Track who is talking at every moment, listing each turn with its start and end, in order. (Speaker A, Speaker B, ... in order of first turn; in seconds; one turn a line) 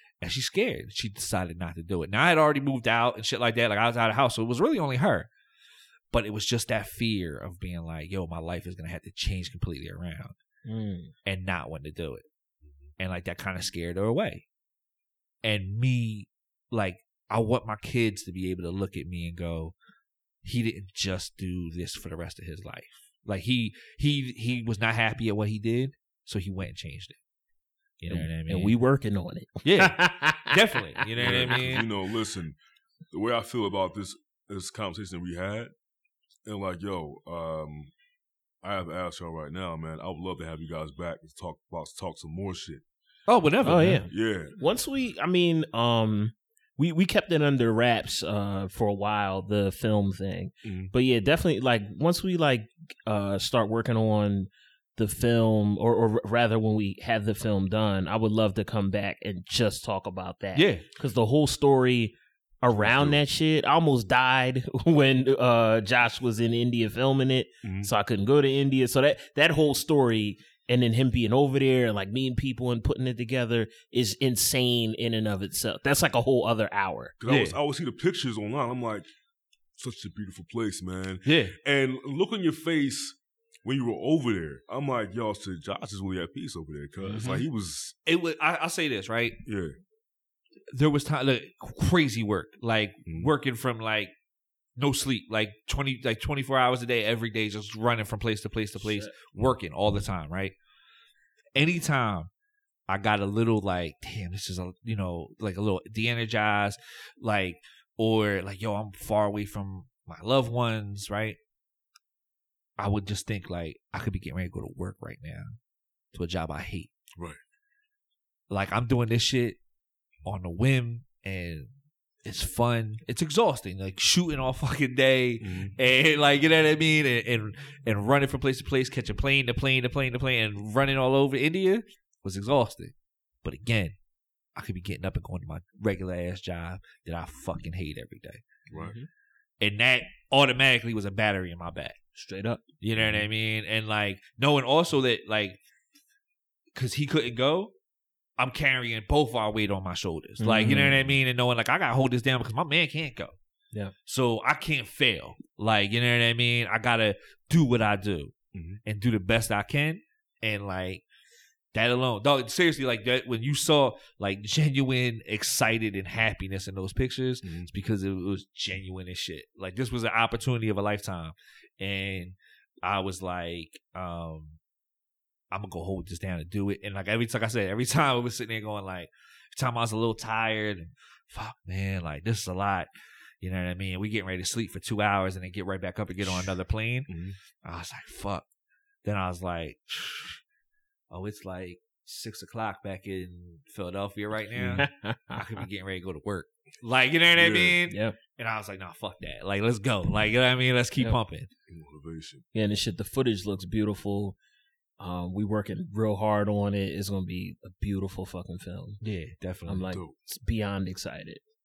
Speaker A: 0.2-5.3
Speaker A: 6.1-10.3
Speaker B: 10.7-11.1
Speaker A: 11.2-12.2
Speaker A: 13.0-14.4
Speaker A: 15.4-19.7
Speaker A: 20.4-27.1
Speaker A: 28.0-28.7
Speaker B: 28.1-30.8
Speaker A: 29.6-31.9
Speaker C: 31.2-32.6
Speaker C: 33.1-35.7
Speaker C: 36.5-37.9
Speaker C: 38.6-42.8
Speaker A: 43.3-44.0
Speaker B: 43.6-77.2
Speaker C: 43.7-44.6
Speaker C: 50.6-50.9
Speaker A: 60.5-60.8
Speaker C: 62.8-63.2
Speaker C: 67.6-67.9
Speaker C: 77.2-79.1
Speaker A: 77.3-77.6
Speaker C: 79.8-88.0
Speaker A: 81.2-81.5
Speaker B: 87.1-87.3
Speaker A: 88.1-89.4
Speaker C: 89.4-89.7
Speaker A: 90.7-94.1
Speaker C: 93.0-93.3
Speaker A: 94.8-100.5
Speaker B: 98.8-99.1
Speaker A: 101.5-102.3
Speaker A: 102.9-111.4
Speaker A: 112.8-115.5
Speaker A: 116.1-116.9
Speaker A: 118.5-119.6
Speaker A: 120.2-121.7
Speaker A: 122.2-133.9
Speaker C: 125.4-125.7
Speaker A: 134.5-138.4
Speaker C: 138.7-138.9
Speaker B: 138.7-139.1
Speaker A: 139.6-142.0
Speaker B: 142.2-142.6
Speaker A: 142.8-145.6
Speaker C: 143.0-143.3
Speaker A: 146.7-147.7
Speaker A: 148.4-153.3
Speaker B: 150.4-151.0
Speaker A: 154.1-158.3
Speaker C: 158.5-158.8
Speaker A: 158.8-161.0
Speaker A: 161.7-174.6
Speaker C: 167.4-167.7
Speaker A: 175.5-182.9
Speaker A: 183.4-187.1
Speaker C: 186.2-186.5
Speaker C: 187.1-187.4
Speaker A: 187.6-188.4
Speaker A: 189.0-190.4
Speaker A: 191.1-201.5
Speaker C: 194.5-194.8
Speaker B: 194.8-195.4
Speaker C: 197.3-197.8
Speaker B: 197.9-198.2
Speaker C: 201.7-202.4
Speaker B: 202.5-204.3
Speaker B: 205.0-209.0
Speaker A: 209.0-209.9
Speaker B: 209.7-211.4